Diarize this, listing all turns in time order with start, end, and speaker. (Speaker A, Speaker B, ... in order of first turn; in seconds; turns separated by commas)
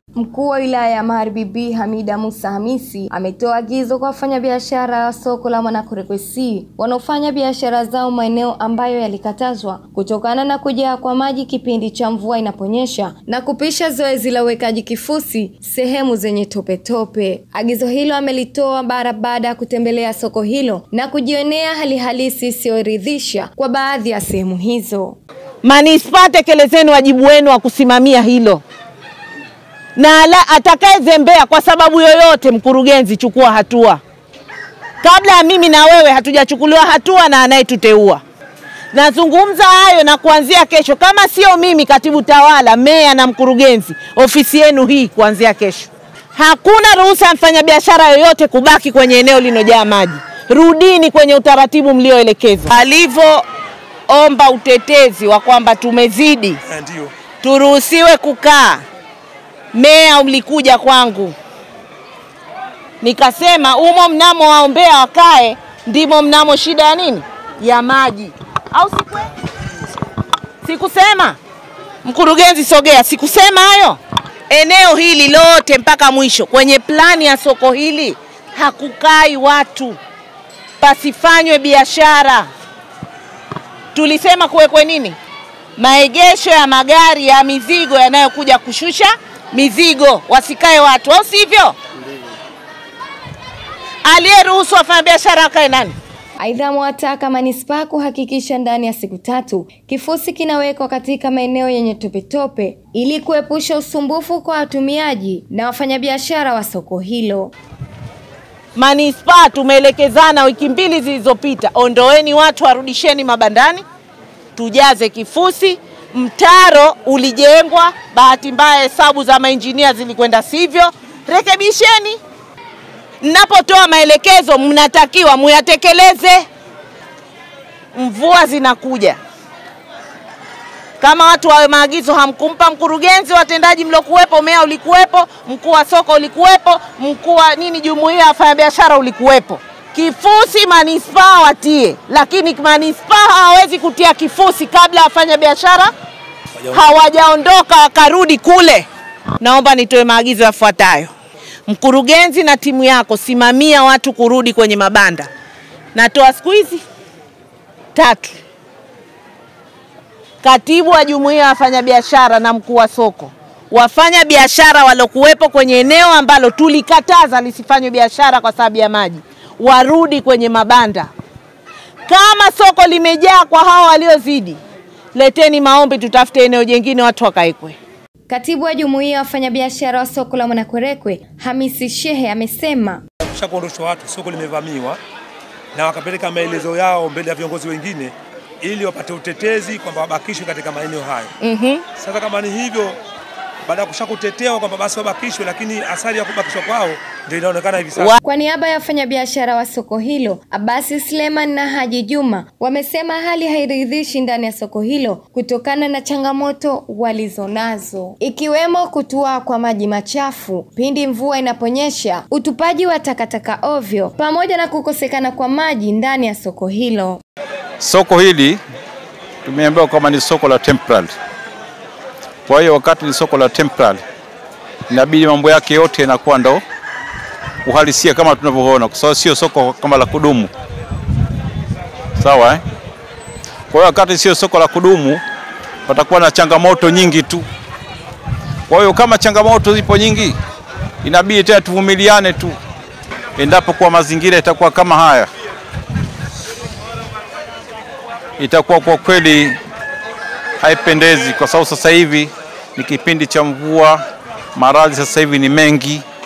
Speaker A: 0.2-25.2, Speaker B: 25.6-28.6, Speaker B: 29.9-34.0, Speaker B: 35.0-38.2, Speaker B: 38.9-53.4, Speaker B: 54.1-56.6, Speaker C: 56.7-57.1, Speaker B: 57.4-58.8, Speaker B: 59.7-61.3, Speaker B: 63.0-69.3, Speaker B: 70.6-71.4, Speaker B: 72.0-74.0, Speaker B: 74.5-80.0, Speaker B: 80.8-82.5, Speaker B: 83.9-85.2, Speaker B: 85.8-91.8, Speaker B: 94.0-96.0, Speaker A: 96.4-107.5, Speaker B: 108.7-113.8, Speaker B: 114.5-122.2, Speaker B: 123.2-126.5, Speaker B: 127.9-129.2, Speaker B: 131.0-145.9, Speaker B: 146.7-148.9, Speaker B: 149.4-151.1, Speaker B: 151.7-155.3, Speaker B: 155.9-156.8, Speaker B: 157.9-158.4, Speaker B: 160.4-171.1, Speaker B: 172.1-174.6, Speaker B: 175.1-177.8, Speaker A: 178.3-183.0, Speaker C: 183.3-185.0, Speaker C: 185.7-188.1, Speaker C: 188.6-191.3, Speaker B: 191.4-191.8, Speaker C: 192.0-192.9, Speaker C: 193.7-198.2, Speaker A: 198.2-217.2, Speaker D: 217.8-218.6, Speaker D: 219.4-221.1, Speaker D: 222.5-224.0, Speaker D: 224.9-226.6, Speaker D: 227.6-230.5, Speaker D: 232.2-232.6, Speaker D: 233.7-235.2, Speaker D: 235.9-237.4, Speaker D: 238.7-240.4, Speaker D: 241.0-242.6, Speaker D: 243.3-245.3, Speaker D: 248.4-249.6, Speaker D: 250.6-254.0, Speaker D: 254.5-256.0